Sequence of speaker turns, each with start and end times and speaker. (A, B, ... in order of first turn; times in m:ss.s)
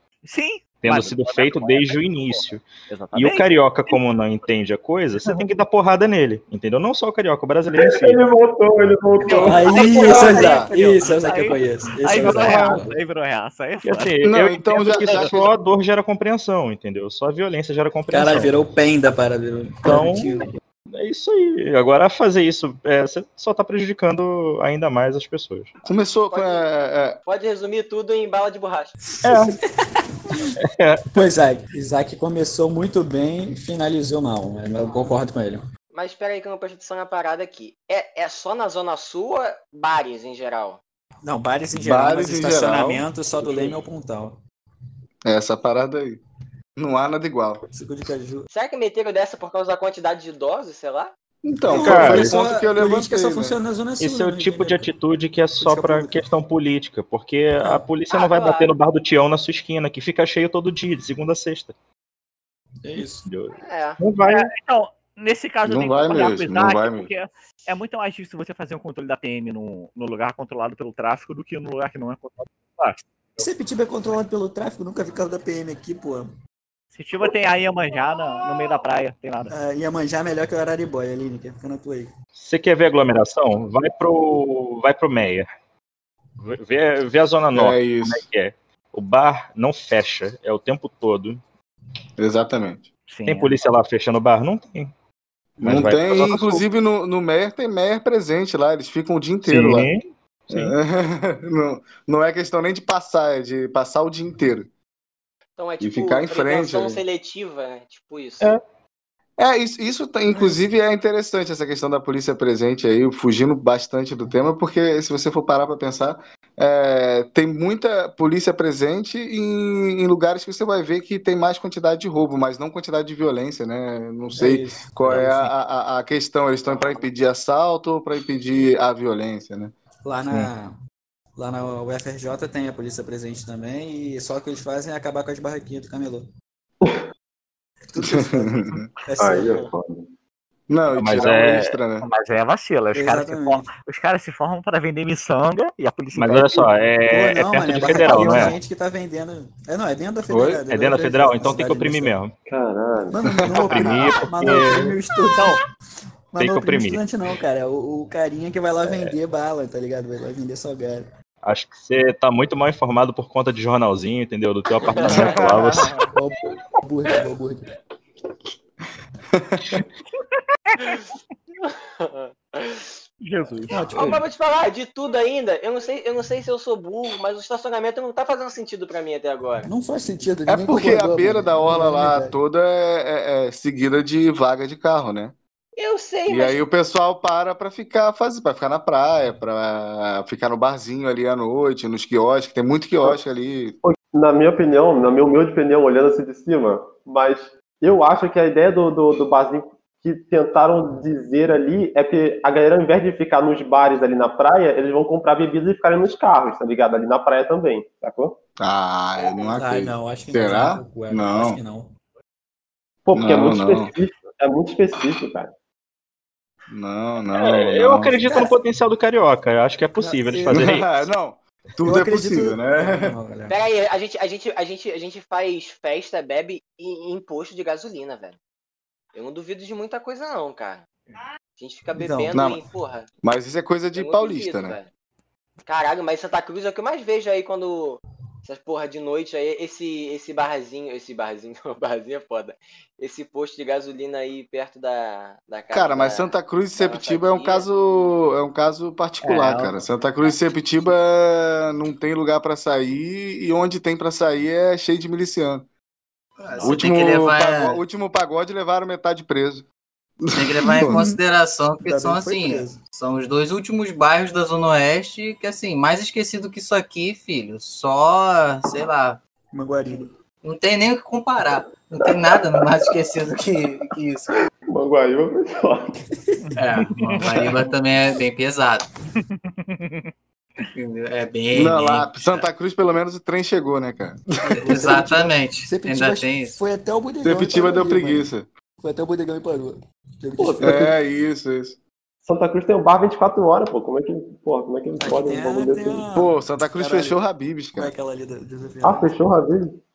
0:00.2-0:04.0 A
0:00.8-0:08.3 B
0:07.7-0:10.5 C
0:09.2-0:14.1 A
0:09.4-0:12.9 D
0:10.1-0:10.7 E
0:12.2-0:12.8 B
0:13.8-0:18.5 B
0:14.2-0:15.5 E
0:14.8-0:15.4 A
0:18.1-0:20.5 D
0:19.8-0:25.7 B
0:25.8-0:27.2 E
0:26.3-0:26.7 F
0:27.2-0:28.9 F
0:29.2-0:29.6 B
0:30.6-0:31.0 B
0:31.1-0:35.6 D
0:35.9-0:40.8 F
0:41.2-0:44.4 D
0:41.7-0:43.7 E
0:45.2-0:46.2 E
0:46.8-0:47.6 E
0:47.7-0:48.5 D
0:48.5-0:51.1 F
0:51.4-0:53.6 E
0:51.6-0:54.9 D
0:51.7-0:52.4 B
0:54.0-1:01.7 B
0:55.6-0:56.2 D
0:58.1-0:58.7 F
1:02.8-1:03.3 D
1:03.2-1:04.5 B
1:03.6-1:04.0 F
1:04.2-1:13.4 A
1:05.6-1:07.1 E
1:13.4-1:16.3 D
1:16.9-1:19.5 A
1:19.5-1:22.1 D
1:22.4-1:25.5 B
1:26.4-1:31.4 B
1:27.5-1:28.2 E
1:32.2-1:32.9 E
1:33.1-1:33.5 A
1:33.2-1:34.9 B
1:35.6-1:39.9 E
1:35.6-1:36.6 B
1:39.4-1:40.7 B
1:40.5-1:44.7 E
1:45.6-1:48.6 F
1:45.8-1:47.0 E
1:49.4-2:09.7 E
2:04.4-2:05.5 D
2:06.6-2:07.1 F
2:10.0-2:10.7 D
2:11.4-2:16.3 D
2:17.9-2:19.7 D
2:18.0-2:18.8 E
2:19.2-2:20.1 C
2:20.7-2:22.1 E
2:20.9-2:21.8 B
2:22.0-2:26.7 A
2:22.9-2:23.7 D
2:26.1-2:28.6 B
2:27.1-2:32.2 D
2:27.9-2:28.5 A
2:30.3-2:30.6 E
2:30.7-2:32.3 B
2:32.5-2:33.2 C
2:33.1-2:35.6 D
2:33.6-2:34.9 B
2:36.3-2:41.1 D
2:36.4-2:37.0 B
2:41.4-2:46.0 B
2:44.8-2:45.4 F
2:45.1-2:45.6 E
2:45.1-2:45.4 D
2:46.1-2:47.6 D
2:49.3-2:49.8 E
2:50.7-2:51.1 A
2:51.6-2:53.0 F
2:53.2-2:53.8 A
2:53.7-2:54.2 D
2:53.9-2:59.7 F
2:59.6-3:02.3 D
3:00.5-3:05.3 E
3:05.8-3:06.6 F
3:06.3-3:13.8 E
3:13.8-3:28.4 C
3:28.6-3:31.6 E
3:29.5-3:31.9 D
3:33.0-3:35.5 C
3:33.1-3:33.9 E
3:36.7-3:38.2 E
3:37.3-3:41.1 B
3:38.2-3:38.5 D
3:40.0-3:40.6 D
3:40.5-3:43.1 E
3:41.8-3:43.6 D
3:43.5-3:48.4 F
3:49.1-3:50.8 F
3:51.6-3:53.1 F
3:51.9-3:52.3 D
3:52.3-3:52.6 E
3:53.2-3:54.8 E
3:53.9-3:54.9 F
3:55.6-4:07.6 F
4:05.7-4:15.6 E
4:09.2-4:09.8 A
4:16.4-4:17.8 G
4:16.6-4:19.6 E
4:20.2-4:21.0 E
4:20.3-4:29.2 G
4:20.8-4:21.2 D
4:21.8-4:22.8 D
4:29.5-4:30.1 D
4:30.4-4:34.3 G
4:32.0-4:32.9 C
4:34.7-4:36.0 C
4:36.6-4:38.9 G
4:36.9-4:37.6 A
4:39.2-4:40.1 A
4:40.7-4:42.5 G
4:41.5-4:44.6 E
4:44.5-4:50.9 D
4:44.6-4:46.6 G
4:47.2-4:48.5 E
4:50.4-4:50.9 C
4:50.6-4:51.8 E
4:52.2-4:56.0 C
4:55.0-4:57.2 D
4:56.1-4:57.9 E
4:57.7-4:59.1 D
4:58.8-4:59.8 C